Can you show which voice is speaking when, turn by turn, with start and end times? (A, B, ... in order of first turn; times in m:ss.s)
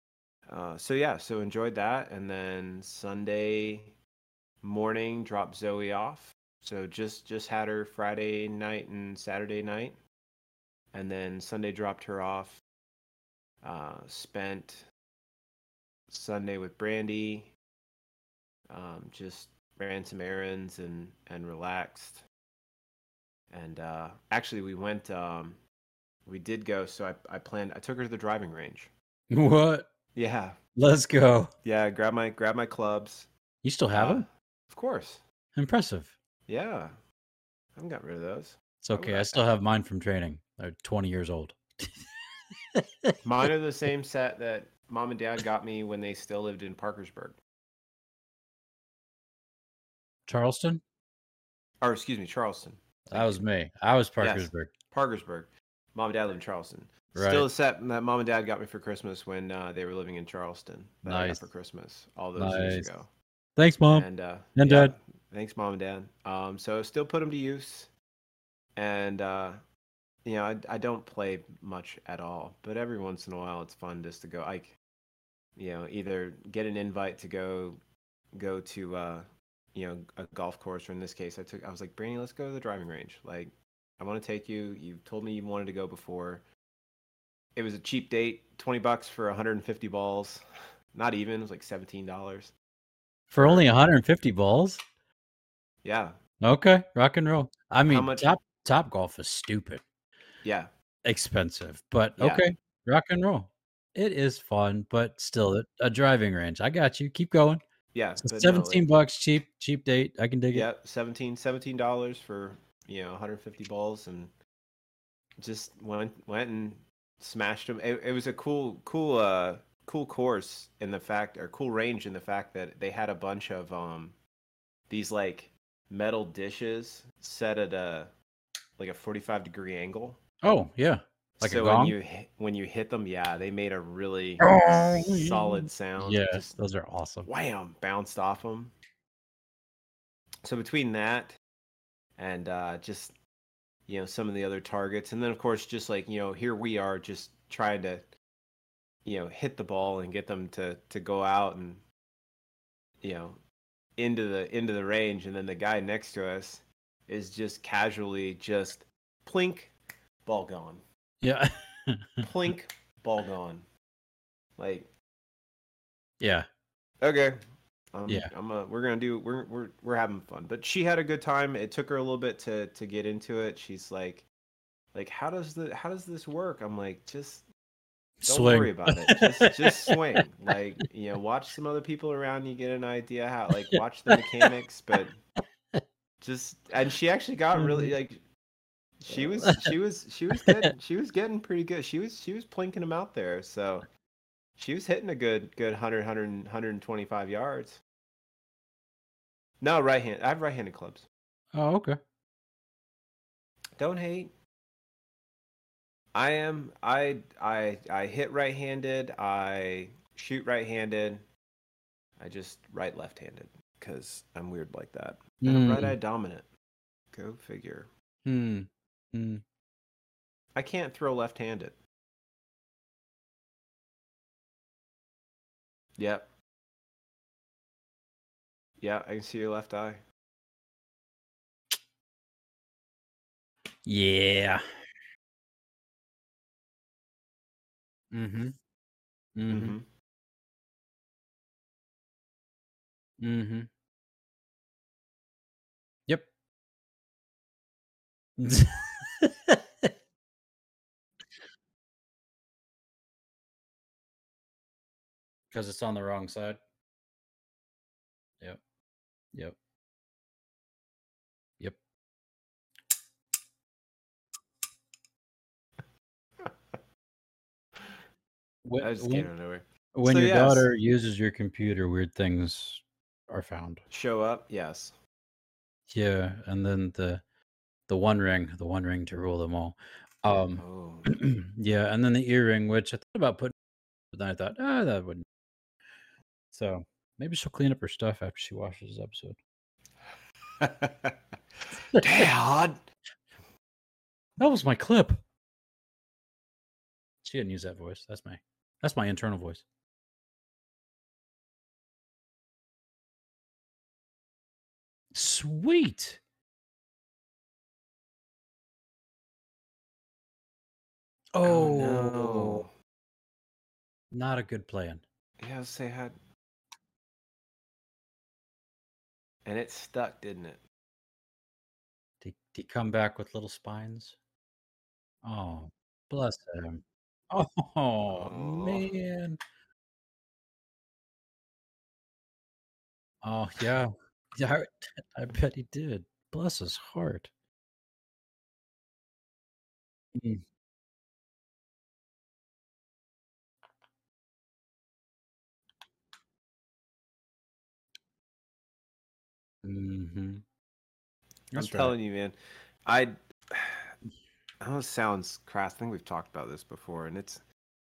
0:00.5-0:04.0 A
0:04.6-0:10.0 A
0:10.9-0:12.6 A
0:13.6-0:14.8 A
0:16.1-0:17.5 A
0:18.7-0:22.2 A
0:23.5-0:25.6 A
0:26.2-0:28.9 A
0:29.3-0:29.9 B
0:30.1-0:30.6 A
0:30.8-0:31.5 B
0:31.6-0:33.3 A
0:33.6-0:34.3 B
0:33.9-0:35.2 A
0:35.6-0:36.1 B
0:36.5-0:36.9 A
0:37.7-0:39.4 A
0:38.8-0:42.0 B
0:42.7-0:43.1 B
0:43.2-0:47.4 A
0:50.3-0:50.8 B
0:51.8-0:53.4 A
0:53.1-0:54.7 B
0:54.2-1:03.1 A
0:57.1-0:57.5 B
1:01.0-1:01.5 B
1:02.4-1:02.9 B
1:03.6-1:04.9 B
1:03.9-1:07.9 A
1:08.8-1:09.6 A
1:10.2-1:14.8 A
1:15.6-1:17.8 A
1:18.3-1:26.4 A
1:27.5-1:30.4 A
1:30.9-1:32.5 A
1:33.3-1:34.8 B
1:33.3-1:33.7 A
1:35.8-1:36.2 A
1:36.4-1:39.8 B
1:37.8-1:38.3 A
1:40.4-1:40.7 A
1:41.0-1:47.6 B
1:42.2-1:42.4 A
1:47.9-1:48.9 A
1:48.2-1:50.7 B
1:50.5-1:54.3 A
1:55.4-2:04.2 A
2:04.9-2:08.1 A
2:08.8-2:10.2 A
2:10.4-2:12.0 B
2:11.4-2:16.6 A
2:14.4-2:17.3 B
2:17.2-2:18.7 A
2:20.4-2:21.4 A
2:22.2-2:23.2 A
2:23.9-2:28.0 A
2:29.0-2:31.8 A
2:33.0-2:33.4 A
2:34.0-2:40.8 A
2:41.2-2:42.2 B
2:42.2-2:43.6 A
2:44.6-2:44.9 A
2:46.2-2:46.5 B
2:47.0-2:47.4 A
2:47.9-2:54.3 A
2:54.9-2:57.4 A
2:58.2-2:59.9 B
2:58.2-3:05.2 A
3:04.1-3:04.4 B
3:06.2-3:08.2 A
3:07.6-3:07.9 B
3:09.0-3:13.8 A
3:09.2-3:09.7 B
3:10.4-3:10.7 B
3:14.6-3:17.8 A
3:19.6-3:21.0 A
3:21.5-3:22.0 B
3:23.8-3:24.3 A
3:26.1-3:31.2 A
3:32.2-3:36.5 A
3:35.4-3:35.9 B
3:37.1-3:37.9 A
3:38.2-3:39.4 B
3:40.5-3:41.8 A
3:46.0-3:46.3 A
3:48.8-3:50.0 A
3:53.8-3:54.6 B
3:58.1-3:58.6 B
3:59.4-3:59.8 B
3:59.5-3:59.9 A
4:03.2-4:03.7 B
4:08.4-4:09.9 B
4:15.5-4:16.6 B
4:28.6-4:29.3 B
4:28.8-4:30.7 A
4:29.9-4:33.8 B
4:33.9-4:34.9 A
4:35.9-4:37.2 B
4:37.9-4:43.5 B
4:40.6-4:41.1 A
4:44.1-4:45.2 B
4:46.5-4:49.4 B
4:50.6-4:51.1 A
4:51.9-4:52.3 B
4:52.0-4:52.8 A
4:54.4-4:55.2 B
4:57.2-4:59.6 B
5:05.1-5:06.2 B
5:11.3-5:12.6 B
5:11.4-5:12.7 A
5:14.1-5:15.0 B
5:15.4-5:16.2 A
5:19.4-5:20.6 A
5:22.2-5:24.2 B
5:25.2-5:29.4 B
5:28.0-5:28.9 A
5:33.2-5:37.3 B
5:40.1-5:40.4 B
5:49.6-5:50.4 B
5:51.5-5:53.9 A
5:51.5-5:51.9 B
5:54.6-5:57.4 A